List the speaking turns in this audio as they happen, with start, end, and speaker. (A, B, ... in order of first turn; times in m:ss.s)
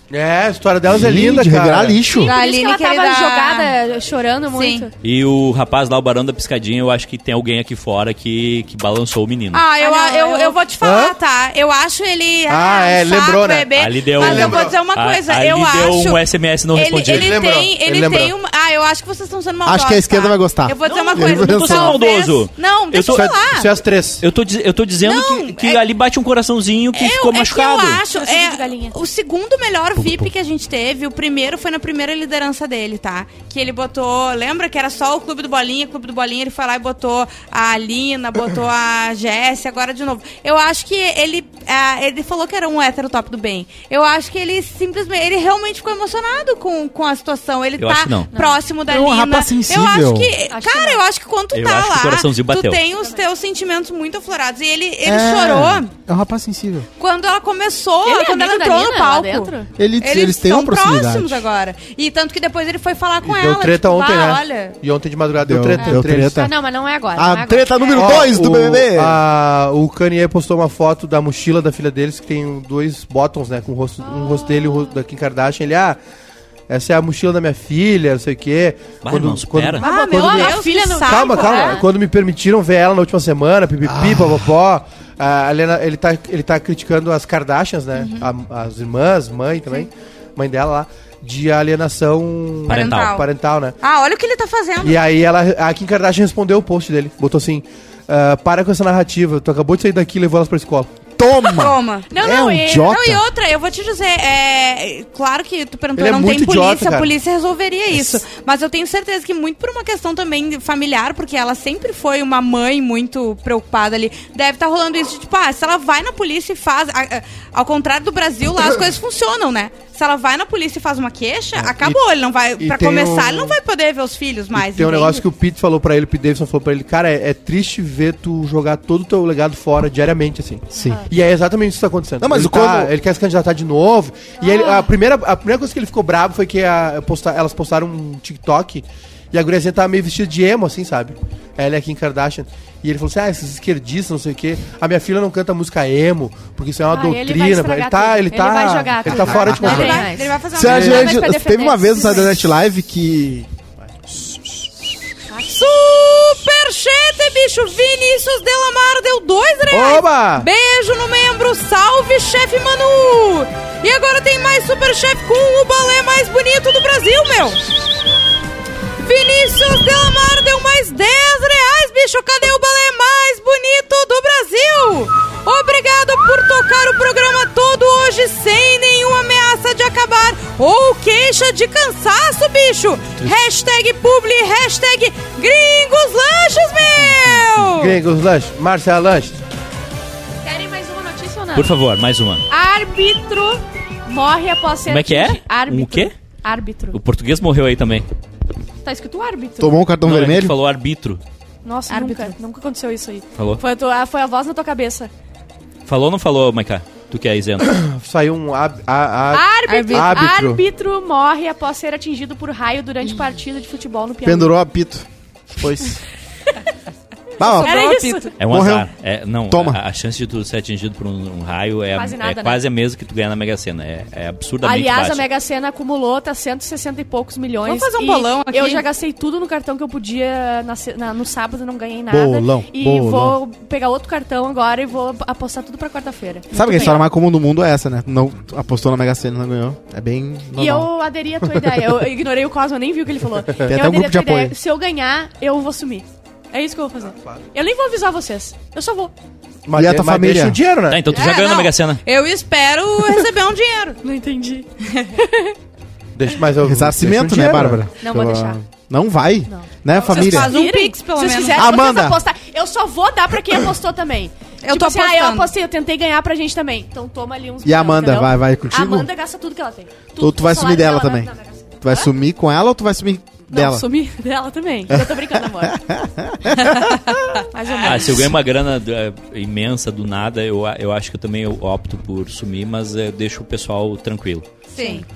0:00.1-0:02.0 A
0:00.9-0:02.3 B
0:02.1-0:04.9 C
0:02.2-0:03.7 D
0:04.5-0:04.9 D
0:05.0-0:09.7 E
0:09.5-0:16.2 D
0:09.8-0:10.6 C
0:10.8-0:11.2 A
0:12.5-0:14.8 A
0:13.8-0:17.4 E
0:16.7-0:23.8 D
0:17.1-0:18.3 A
0:19.6-0:22.0 B
0:20.8-0:21.3 C
0:21.4-0:23.3 E
0:23.1-0:24.2 A
0:24.2-0:28.0 E
0:25.0-0:25.8 D
0:26.9-0:55.9 D
0:28.1-0:29.0 C
0:30.0-0:30.3 B
0:47.8-0:48.3 E
0:48.3-0:48.6 C
0:48.9-0:50.3 B
0:50.5-0:51.0 C
0:51.5-0:52.8 E
0:55.0-0:56.9 B
0:57.0-1:04.8 D
0:58.0-0:59.7 C
0:59.8-1:01.4 B
1:03.2-1:06.5 A
1:05.4-1:06.6 B
1:06.4-1:08.3 C
1:07.2-1:09.2 B
1:08.0-1:16.0 A
1:14.0-1:15.0 C
1:16.7-1:33.8 A
1:19.0-1:19.8 E
1:19.8-1:21.8 D
1:19.8-1:21.9 C
1:23.8-1:24.4 B
1:28.0-1:28.3 D
1:32.7-1:33.2 E
1:32.7-1:33.3 D
1:33.8-1:35.0 D
1:34.8-1:40.9 A
1:41.2-1:43.2 B
1:41.4-1:42.1 D
1:42.1-1:43.0 C
1:42.8-2:05.2 D
1:46.0-1:47.1 A
1:47.9-1:48.2 A
2:01.6-2:02.0 A
2:02.6-2:03.6 A
2:04.5-2:30.1 A
2:10.8-2:11.0 B
2:10.8-2:11.0 C
2:12.2-2:12.9 B
2:14.4-2:14.9 C
2:26.9-2:32.4 C
2:29.2-2:31.1 D
2:29.3-2:29.9 B
2:30.5-2:33.5 B
2:30.6-2:31.0 A
2:35.4-2:47.6 D
2:39.7-2:40.5 A
2:49.0-3:08.0 D
3:07.2-3:07.7 E
3:07.8-3:09.4 A
3:10.4-3:11.7 C
3:11.6-3:12.4 E
3:12.5-3:17.0 C
3:14.9-3:16.1 E
3:16.9-3:18.0 E
3:18.8-3:19.8 C
3:19.6-3:20.6 B
3:20.0-3:21.2 E
3:21.6-3:25.1 C
3:21.9-3:22.4 D
3:23.4-3:23.6 E
3:25.9-3:27.7 E
3:27.7-3:30.6 A
3:29.3-3:34.5 C
3:29.7-3:30.3 D
3:34.2-3:35.1 B
3:35.6-3:36.0 B
3:37.4-3:37.9 B
3:37.4-3:38.4 D
3:37.5-3:38.3 C
3:38.4-3:45.3 E
3:38.5-3:38.9 B
3:39.5-3:39.8 B
3:41.9-3:42.6 C
3:44.6-3:57.0 C
3:47.6-3:48.8 D
3:52.1-3:53.4 B
3:56.5-4:00.9 B
4:00.6-4:09.1 C
4:03.6-4:04.6 B
4:09.7-4:11.1 A
4:09.8-4:10.6 B
4:10.9-4:12.0 E
4:11.1-4:14.0 D
4:14.0-4:15.6 C
4:16.2-4:17.8 A
4:16.6-4:20.6 B
4:18.0-4:18.6 C
4:19.5-4:32.1 C
4:20.0-4:21.8 D
4:21.5-4:22.2 B
4:24.6-4:25.5 D
4:27.6-4:29.1 B
4:30.2-4:31.3 B
4:31.8-4:33.9 B
4:33.5-4:35.8 C
4:34.9-4:37.0 B
4:37.5-4:38.3 C
4:37.7-4:38.1 D
4:37.8-4:44.6 E
4:44.7-4:45.1 D